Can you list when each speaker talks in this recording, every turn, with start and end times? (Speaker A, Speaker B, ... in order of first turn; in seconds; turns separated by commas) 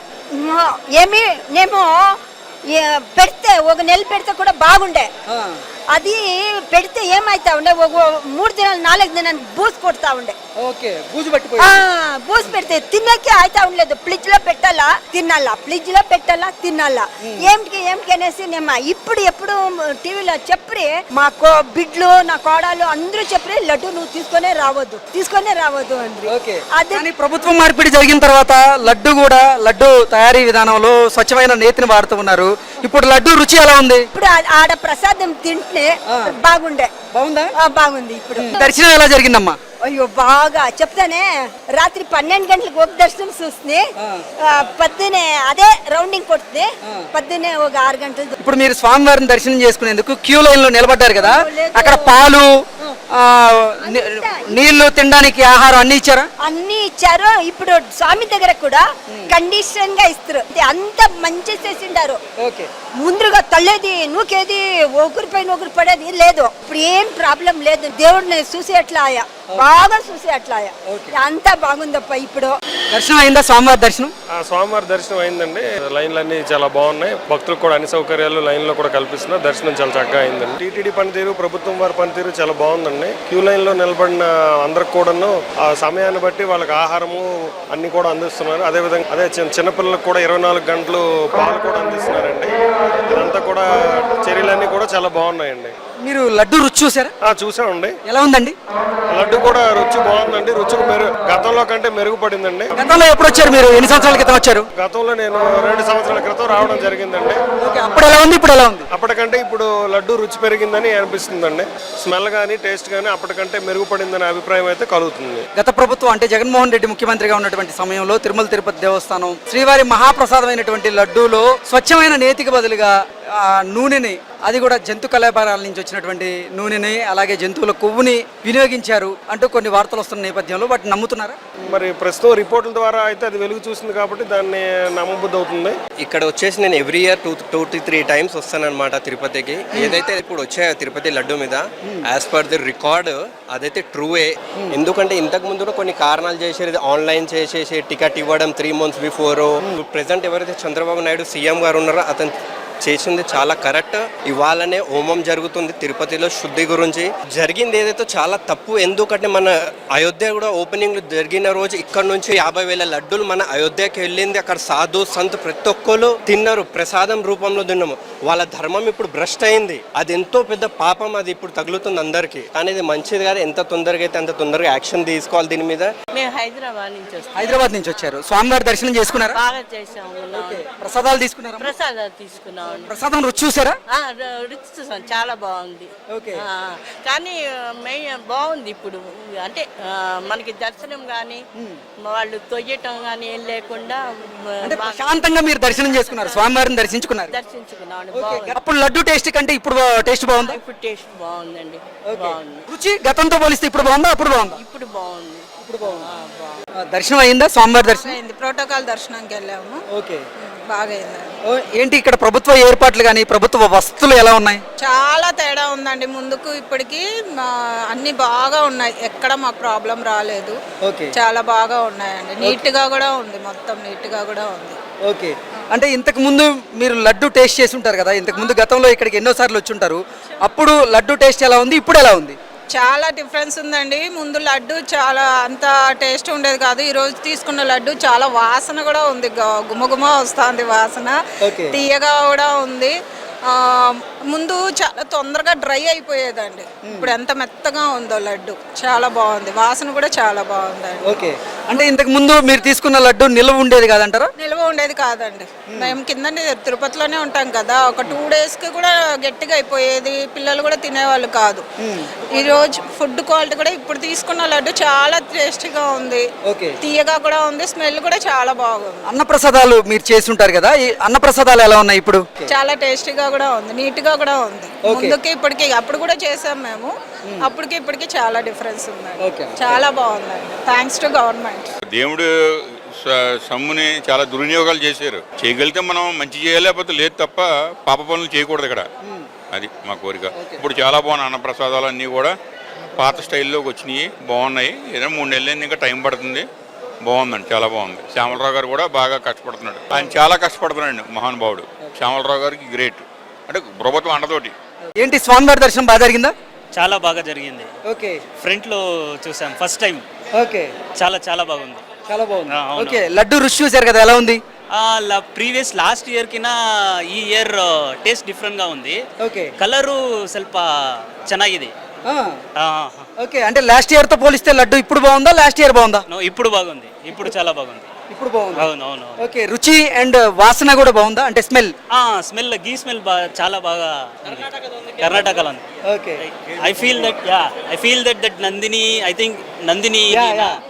Speaker A: 0.3-2.2, Speaker A: 2.7-5.1, Speaker B: 5.3-5.6, Speaker A: 5.9-10.4, Speaker B: 10.6-11.8, Speaker A: 11.6-27.1, Speaker B: 17.2-17.5, Speaker B: 26.3-34.1, Speaker A: 34.1-36.9, Speaker B: 36.1-36.3, Speaker B: 37.1-37.5, Speaker A: 37.6-38.7, Speaker B: 38.4-39.6, Speaker A: 39.8-43.8, Speaker B: 44.0-44.2, Speaker A: 44.4-48.4, Speaker B: 48.4-52.6, Speaker A: 51.2-52.3, Speaker B: 53.1-56.3, Speaker A: 53.8-54.6, Speaker A: 56.4-62.2, Speaker B: 59.1-59.3, Speaker B: 62.4-62.7, Speaker A: 63.0-72.5, Speaker B: 70.9-71.1, Speaker B: 72.9-74.1, Speaker C: 74.3-92.5, Speaker C: 93.1-95.7, Speaker B: 96.0-97.1, Speaker C: 97.3-98.0, Speaker B: 98.0-98.5, Speaker C: 99.2-102.9, Speaker B: 102.7-104.7, Speaker C: 104.8-107.4, Speaker B: 107.6-108.8, Speaker C: 108.9-115.4, Speaker B: 115.5-131.4, Speaker C: 131.6-135.8, Speaker D: 136.0-175.9, Speaker B: 139.7-140.0, Speaker E: 176.1-177.6, Speaker B: 177.3-179.4, Speaker E: 179.1-180.8, Speaker B: 180.3-181.7, Speaker E: 181.5-183.0, Speaker B: 182.9-183.8, Speaker E: 183.9-191.4, Speaker B: 186.1-186.4, Speaker E: 192.0-196.6, Speaker B: 194.6-197.3, Speaker E: 197.3-198.6, Speaker B: 198.1-200.6, Speaker E: 200.3-202.7, Speaker B: 202.0-204.6, Speaker E: 204.4-206.6, Speaker B: 205.6-206.0, Speaker B: 206.8-208.2, Speaker F: 207.8-209.8, Speaker B: 209.9-210.2, Speaker F: 210.4-211.3, Speaker B: 211.4-214.6, Speaker F: 214.8-220.6, Speaker B: 220.8-221.1, Speaker F: 221.1-224.8, Speaker B: 225.1-232.3, Speaker F: 232.7-241.2, Speaker B: 241.4-241.7, Speaker F: 241.7-242.9, Speaker F: 243.5-251.1, Speaker B: 246.8-247.1, Speaker B: 251.0-254.3, Speaker F: 254.4-261.6, Speaker B: 255.7-255.9, Speaker B: 261.8-262.1, Speaker F: 262.3-266.2, Speaker B: 266.4-266.8, Speaker F: 266.8-269.0, Speaker B: 269.1-272.5, Speaker F: 272.5-281.7, Speaker B: 274.8-275.2, Speaker B: 279.2-279.8, Speaker G: 281.9-282.3, Speaker G: 283.0-288.9, Speaker G: 289.5-292.3, Speaker B: 290.4-290.6, Speaker G: 292.9-296.4, Speaker G: 297.0-304.5, Speaker B: 305.0-306.3, Speaker H: 306.7-307.7, Speaker B: 307.9-308.2, Speaker H: 308.4-310.0, Speaker B: 310.3-310.7, Speaker H: 311.0-311.8, Speaker B: 312.1-314.4, Speaker H: 312.5-313.0, Speaker H: 314.7-316.5, Speaker H: 317.1-319.0, Speaker B: 319.2-319.5, Speaker H: 319.6-320.6, Speaker H: 321.3-321.7, Speaker B: 322.1-322.4, Speaker H: 322.6-323.0, Speaker B: 323.2-326.0, Speaker H: 326.1-327.9, Speaker B: 328.1-331.7, Speaker H: 328.6-329.1, Speaker H: 331.9-334.4, Speaker H: 335.0-335.6, Speaker B: 335.9-336.2, Speaker H: 336.2-340.4, Speaker B: 336.8-337.1, Speaker B: 340.1-340.6